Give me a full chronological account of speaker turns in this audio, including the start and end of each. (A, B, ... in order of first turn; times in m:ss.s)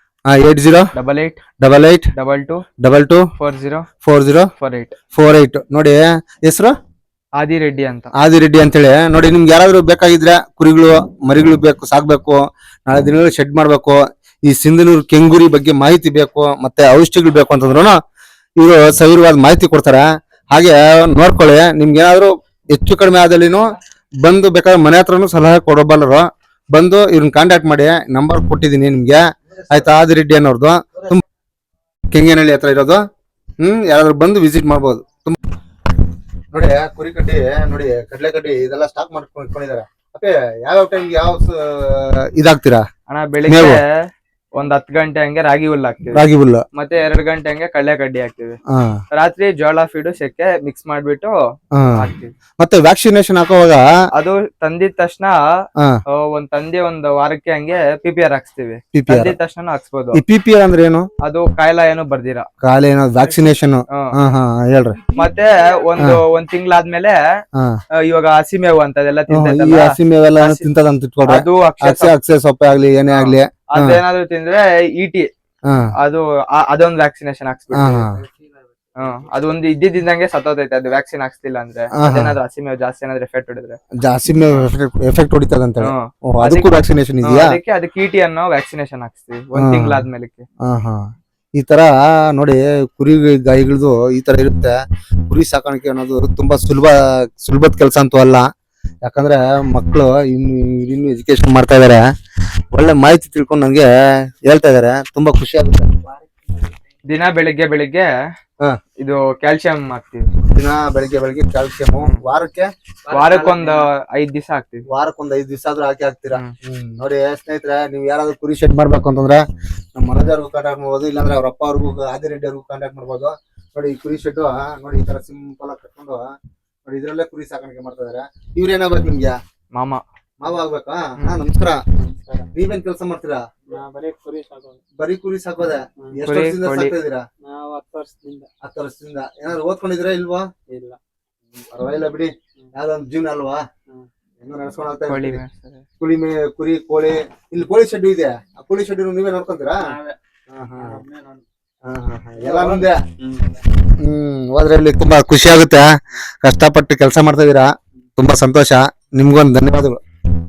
0:00.3-0:00.9 A
0:00.9-0:01.4 B
0:01.6-0:02.1 A
0:02.1-0:02.6 B
0:02.8-0:03.3 A
0:03.4-0:03.9 B
0:04.0-0:04.5 A
0:04.6-0:05.0 B
0:05.1-0:06.7 A
0:07.4-0:08.1 B
0:08.1-0:17.9 A
0:18.6-0:23.6 A
0:24.2-0:31.2 A
0:32.1-0:33.0 A
0:33.6-0:35.4 A
0:36.5-0:42.8 A
0:43.1-0:43.9 B
0:43.5-0:43.8 A
0:44.5-0:46.2 B
0:46.1-0:46.6 A
0:46.7-0:48.6 B
0:48.7-0:49.0 A
0:49.1-0:51.4 B
0:51.7-0:52.0 A
0:51.9-0:52.3 B
0:52.6-0:53.8 A
0:54.1-0:55.4 B
0:56.1-1:00.2 B
0:58.9-0:59.3 A
1:00.1-1:01.1 A
1:01.2-1:02.5 B
1:02.6-1:05.1 A
1:05.1-1:07.2 B
1:08.0-1:10.7 B
1:09.3-1:14.0 A
1:11.2-1:12.1 B
1:13.1-1:15.3 B
1:15.7-1:15.9 A
1:16.0-1:18.1 B
1:17.7-1:18.2 A
1:19.0-1:23.8 B
1:21.9-1:22.4 A
1:24.0-1:27.6 A
1:25.8-1:30.4 B
1:29.6-1:30.0 A
1:30.6-1:31.0 A
1:31.6-1:38.5 A
1:39.0-1:42.0 A
1:42.7-1:46.0 A
1:47.1-1:48.1 B
1:49.0-1:50.3 B
1:50.5-1:52.7 A
1:53.1-1:54.8 B
1:54.9-1:59.4 A
2:00.0-2:06.2 A
2:06.8-2:09.4 A
2:09.7-2:10.0 B
2:10.4-2:11.8 A
2:12.0-2:12.5 C
2:12.5-2:13.4 A
2:13.7-2:14.8 C
2:15.0-2:17.2 A
2:16.2-2:16.9 B
2:17.4-2:18.5 C
2:18.6-2:20.5 A
2:20.7-2:21.0 C
2:21.5-2:23.6 A
2:24.4-2:25.4 A
2:25.0-2:25.8 B
2:26.0-2:29.9 A
2:29.8-2:30.1 C
2:30.5-2:31.0 A
2:30.8-2:31.4 C
2:31.9-2:33.0 A
2:32.4-2:33.6 C
2:33.8-2:35.9 A
2:36.4-2:40.0 A